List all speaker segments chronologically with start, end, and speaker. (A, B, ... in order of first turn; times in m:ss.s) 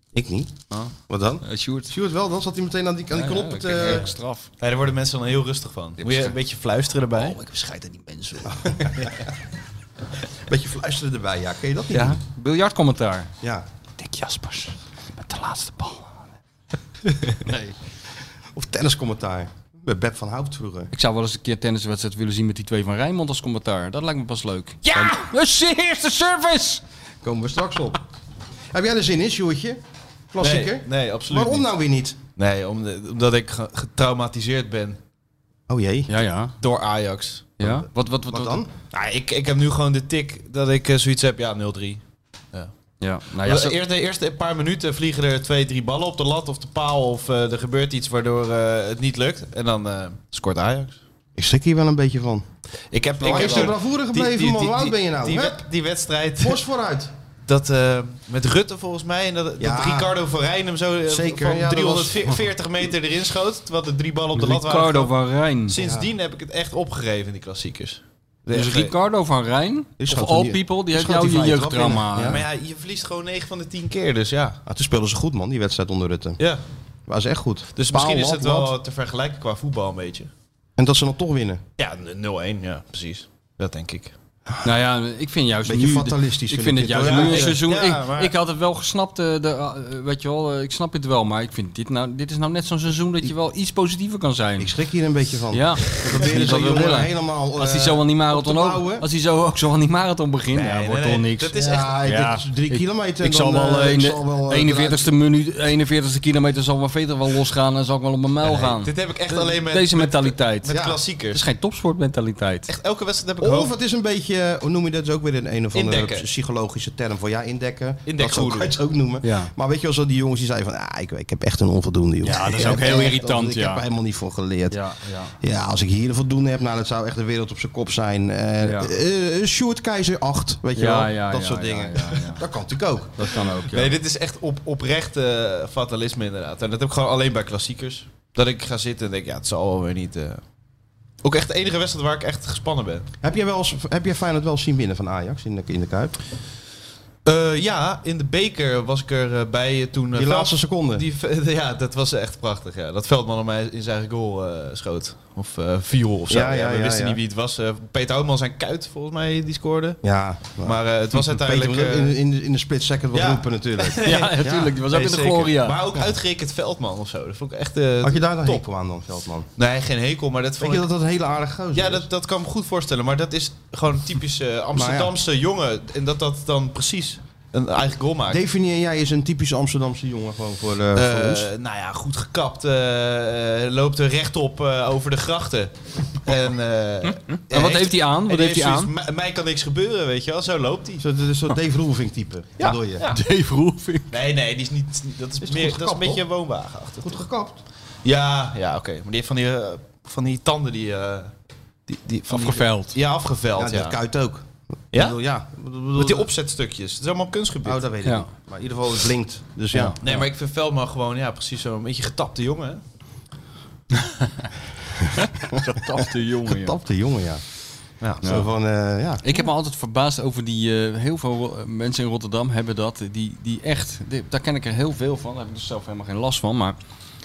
0:00.1-0:00.5 A
0:00.7-0:01.9 B
0:01.1-0:04.1 A
0:03.1-0:04.5 B
0:04.6-0:07.4 C
0:06.0-0:06.4 B
0:07.2-0:09.1 B
0:08.4-0:09.3 A
0:10.4-0:12.2 A
0:11.9-0:13.3 B
0:13.4-0:13.7 A
0:14.0-0:16.3 B
0:17.2-0:17.7 B
0:18.5-0:20.9 A
0:20.9-0:26.8 B
0:27.2-0:28.0 A
0:28.7-0:29.8 A
0:30.3-0:32.2 A
0:30.4-0:31.7 C
0:32.4-0:35.0 C
0:35.7-0:36.1 A
0:36.1-0:36.5 B
0:36.6-0:37.5 C
0:37.6-0:38.6 B
0:37.6-0:38.7 A
0:38.9-0:42.0 C
0:43.0-0:43.8 B
0:43.4-0:51.0 C
0:51.4-0:52.4 A
0:52.9-0:56.6 C
0:53.2-0:55.6 A
0:53.2-0:53.7 B
0:56.4-0:57.1 A
0:57.5-1:05.1 C
0:59.6-1:00.1 A
1:01.1-1:02.5 A
1:04.4-1:05.7 B
1:05.7-1:08.9 C
1:05.8-1:06.1 A
1:08.5-1:12.4 B
1:10.0-1:12.4 A
1:12.2-1:14.6 C
1:14.6-1:16.4 A
1:17.1-1:18.7 A
1:17.8-1:20.3 C
1:20.8-1:21.6 A
1:21.8-1:24.1 C
1:24.6-1:34.7 B
1:25.6-1:27.6 A
1:27.0-1:28.3 C
1:34.6-1:39.1 A
1:35.5-1:41.5 B
1:40.5-1:42.0 C
1:41.5-1:45.1 A
1:42.0-1:50.7 B
1:48.4-1:51.4 C
1:50.7-1:51.0 A
1:51.3-1:52.7 B
1:52.7-1:53.7 C
1:53.4-2:04.8 A
1:55.7-1:56.3 C
1:58.1-1:58.8 C
1:59.2-1:59.5 B
2:02.2-2:03.8 B
2:04.7-2:05.4 B
2:05.4-2:13.4 A
2:08.6-2:08.9 B
2:10.8-2:12.4 B
2:13.2-2:14.0 B
2:13.7-2:20.4 C
2:21.2-2:23.1 C
2:23.2-2:26.2 A
2:27.2-2:40.0 C
2:30.1-2:31.0 A
2:36.3-2:37.2 A
2:40.0-2:44.7 A
2:40.6-2:42.2 C
2:43.1-2:48.6 C
2:44.0-2:45.8 B
2:48.0-2:49.5 A
2:49.6-2:50.9 C
2:50.6-2:52.1 A
2:51.7-2:58.4 C
2:54.7-2:55.1 A
2:58.3-3:01.5 A
3:01.0-3:11.0 C
3:07.3-3:08.9 B
3:11.0-3:13.1 A
3:12.6-3:13.2 C
3:13.1-3:14.1 B
3:14.1-3:17.2 C
3:15.4-3:16.2 A
3:17.0-3:17.6 A
3:18.0-3:21.3 C
3:21.9-3:24.0 C
3:22.3-3:23.0 B
3:23.6-3:26.3 A
3:24.9-3:25.2 C
3:26.0-3:27.8 C
3:27.6-3:30.0 A
3:29.7-3:30.2 B
3:30.0-3:32.8 C
3:34.0-3:34.5 B
3:35.2-3:36.8 B
3:35.5-3:37.4 A
3:38.2-3:39.4 A
3:39.2-3:46.8 B